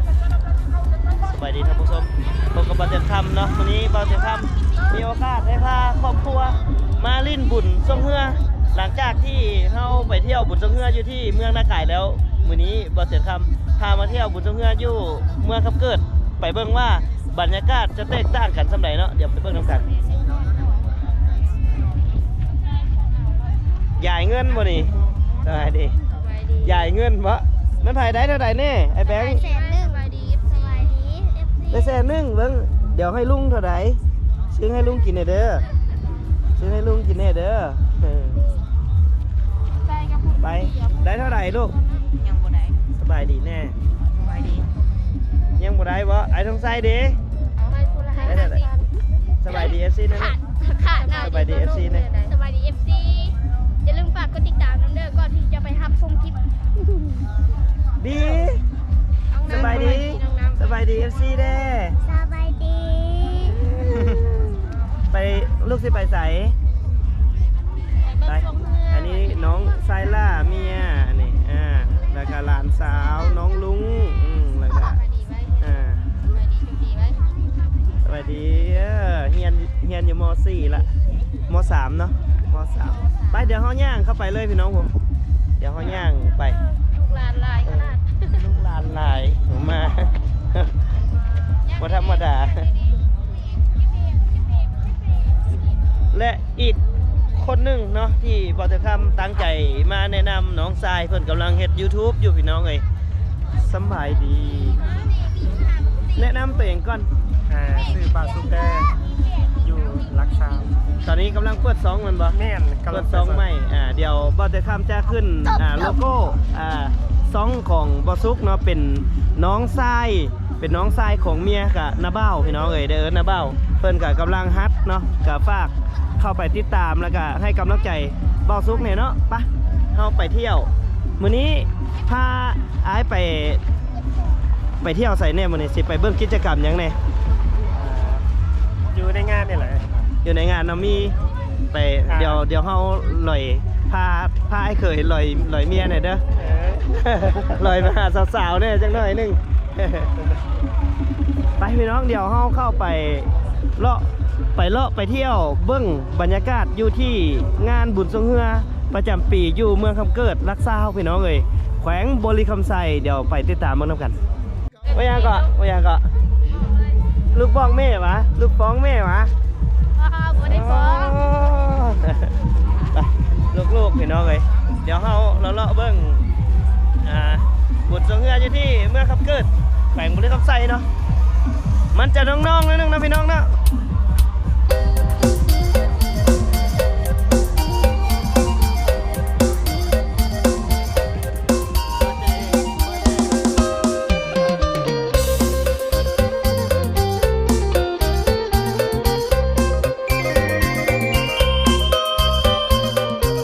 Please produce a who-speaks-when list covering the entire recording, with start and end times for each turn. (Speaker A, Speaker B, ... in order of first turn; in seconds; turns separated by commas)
Speaker A: 1.2-19.9, Speaker A: 24.0-24.9, Speaker A: 25.4-25.9, Speaker B: 26.1-26.8, Speaker A: 26.6-29.5, Speaker B: 29.1-31.9, Speaker A: 31.7-34.0, Speaker A: 34.5-35.6, Speaker A: 36.6-38.4, Speaker A: 40.4-41.8, Speaker C: 42.3-42.6, Speaker A: 43.0-43.7, Speaker C: 44.3-44.6, Speaker A: 45.6-47.2, Speaker B: 47.6-48.9, Speaker C: 48.1-48.4, Speaker A: 48.2-48.6, Speaker A: 49.4-50.4, Speaker B: 50.2-57.2, Speaker C: 50.2-51.5, Speaker A: 51.2-52.1, Speaker C: 52.2-53.3, Speaker A: 58.0-58.6, Speaker B: 59.3-60.8, Speaker C: 59.4-60.2, Speaker A: 59.5-62.0, Speaker B: 62.0-63.5, Speaker A: 63.4-64.5, Speaker A: 65.1-66.5, Speaker C: 68.0-69.2, Speaker A: 68.3-75.0, Speaker B: 74.7-75.6, Speaker A: 75.6-76.0, Speaker B: 76.3-77.2, Speaker A: 78.0-80.9, Speaker A: 81.5-85.0, Speaker A: 85.6-86.6, Speaker B: 86.8-88.2, Speaker A: 87.6-90.7, Speaker C: 91.7-92.5, Speaker A: 91.8-92.7, Speaker A: 96.1-96.8, Speaker A: 97.3-102.8, Speaker A: 103.6-104.8, Speaker A: 106.2-107.1, Speaker D: 107.5-108.9, Speaker D: 109.6-110.8, Speaker A: 111.0-112.4, Speaker D: 112.3-113.4, Speaker A: 112.9-133.6, Speaker A: 134.8-137.0, Speaker D: 137.7-138.2, Speaker D: 138.9-140.1, Speaker A: 140.2-141.2, Speaker A: 141.7-146.2, Speaker D: 142.1-142.4, Speaker D: 146.4-147.5, Speaker A: 146.9-150.1, Speaker A: 151.6-164.2, Speaker C: 164.8-165.5, Speaker A: 164.9-166.1, Speaker A: 167.3-169.3, Speaker C: 170.0-171.2, Speaker A: 170.4-172.3, Speaker A: 172.9-176.2, Speaker A: 177.0-180.9, Speaker A: 181.9-183.6